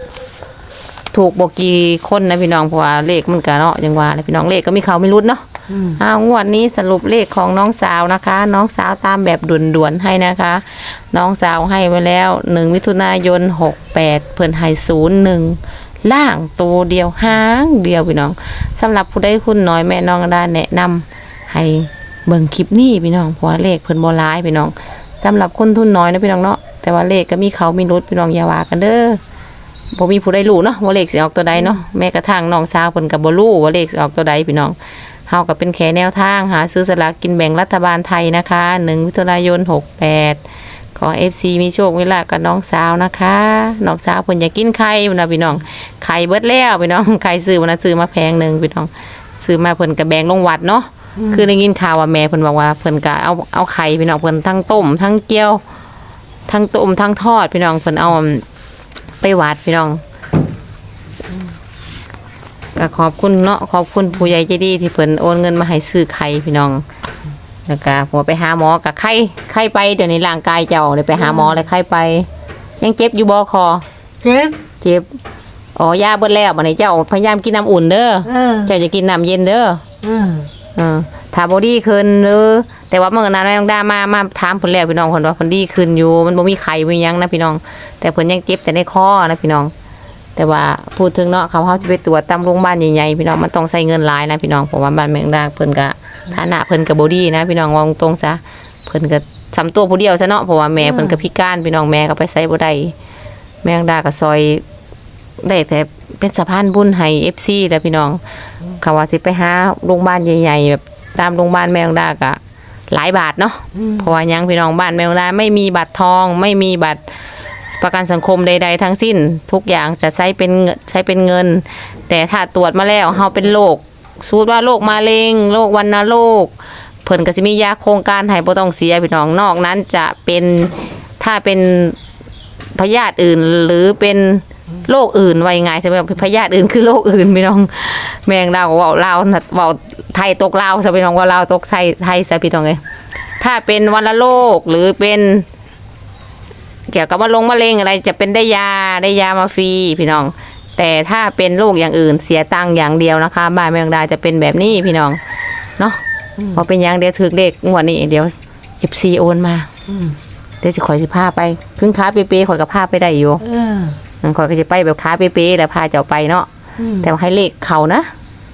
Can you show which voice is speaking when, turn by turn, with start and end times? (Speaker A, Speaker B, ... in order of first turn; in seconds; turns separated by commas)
Speaker A: 1.1-5.4, Speaker B: 5.7-6.0, Speaker A: 6.0-29.2, Speaker A: 29.9-34.8, Speaker A: 35.3-40.4, Speaker A: 40.9-48.9, Speaker A: 49.4-55.6, Speaker B: 51.2-51.5, Speaker A: 56.5-58.4, Speaker A: 59.2-60.0, Speaker A: 62.8-66.8, Speaker A: 67.7-72.3, Speaker B: 71.2-71.6, Speaker A: 72.8-73.8, Speaker B: 74.2-74.6, Speaker A: 74.8-75.1, Speaker A: 75.8-79.8, Speaker B: 78.2-78.7, Speaker B: 80.0-80.5, Speaker A: 80.8-89.7, Speaker A: 90.3-102.9, Speaker B: 100.8-101.2, Speaker A: 103.6-104.6, Speaker A: 105.4-108.2, Speaker A: 108.8-112.4, Speaker A: 112.9-117.0, Speaker B: 113.8-114.0, Speaker A: 117.8-126.5, Speaker A: 127.0-132.0, Speaker A: 132.7-142.8, Speaker A: 143.4-145.4, Speaker A: 146.9-155.2, Speaker A: 155.8-159.7, Speaker B: 159.9-160.2, Speaker A: 160.6-163.4, Speaker B: 163.4-164.0, Speaker A: 164.2-166.5, Speaker B: 166.8-167.1, Speaker A: 167.0-168.1